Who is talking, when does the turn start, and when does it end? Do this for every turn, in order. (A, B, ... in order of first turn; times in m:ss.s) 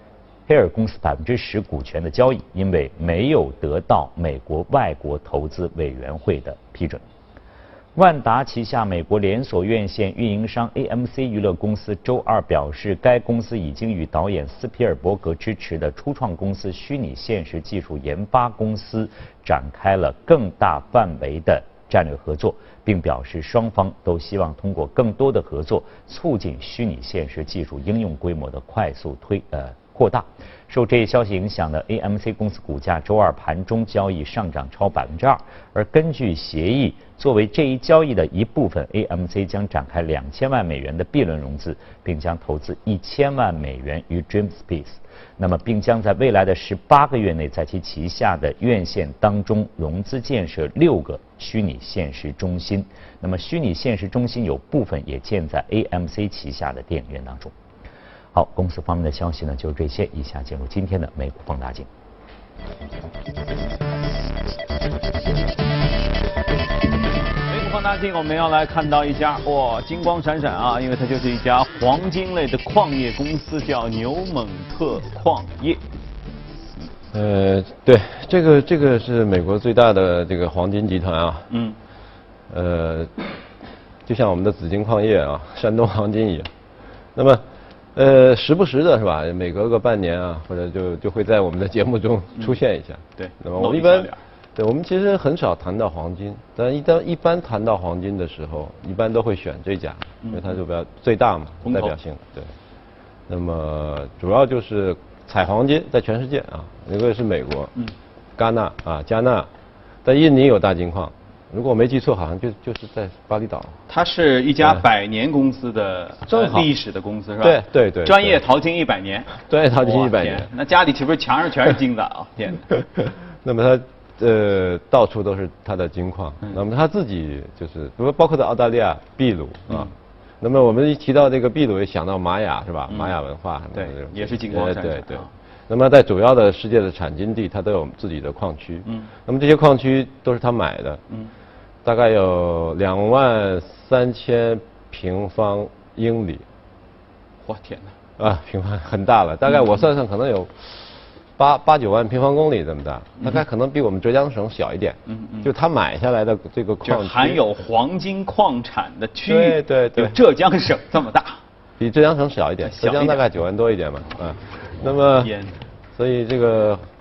0:00.5-0:07.0 A
0:08.0-0:57.5 A
0:58.3-1:01.9 A
1:07.5-1:15.8 B
1:17.1-1:21.5 C
1:21.5-1:21.8 B
1:22.5-1:23.1 C
1:24.0-1:26.5 C
1:27.1-1:27.4 C
1:27.9-1:42.5 C
1:33.2-1:34.2 B
1:40.2-1:40.5 B
1:41.6-1:42.0 B
1:43.3-1:47.7 C
1:48.4-1:49.5 C
1:50.0-1:53.8 C
1:53.9-2:02.7 B
1:56.3-1:56.7 C
1:57.4-1:58.4 C
1:59.5-2:00.5 C
2:03.0-2:21.0 C
2:12.9-2:13.1 B
2:13.7-2:15.3 B
2:21.8-2:26.4 C
2:27.4-2:27.9 B
2:28.2-2:30.8 C
2:31.4-2:37.4 C
2:35.1-2:35.5 B
2:36.8-2:41.4 B
2:39.2-2:40.2 C
2:41.8-2:45.3 C
2:42.6-2:43.2 B
2:45.1-2:45.6 B
2:46.0-2:46.8 C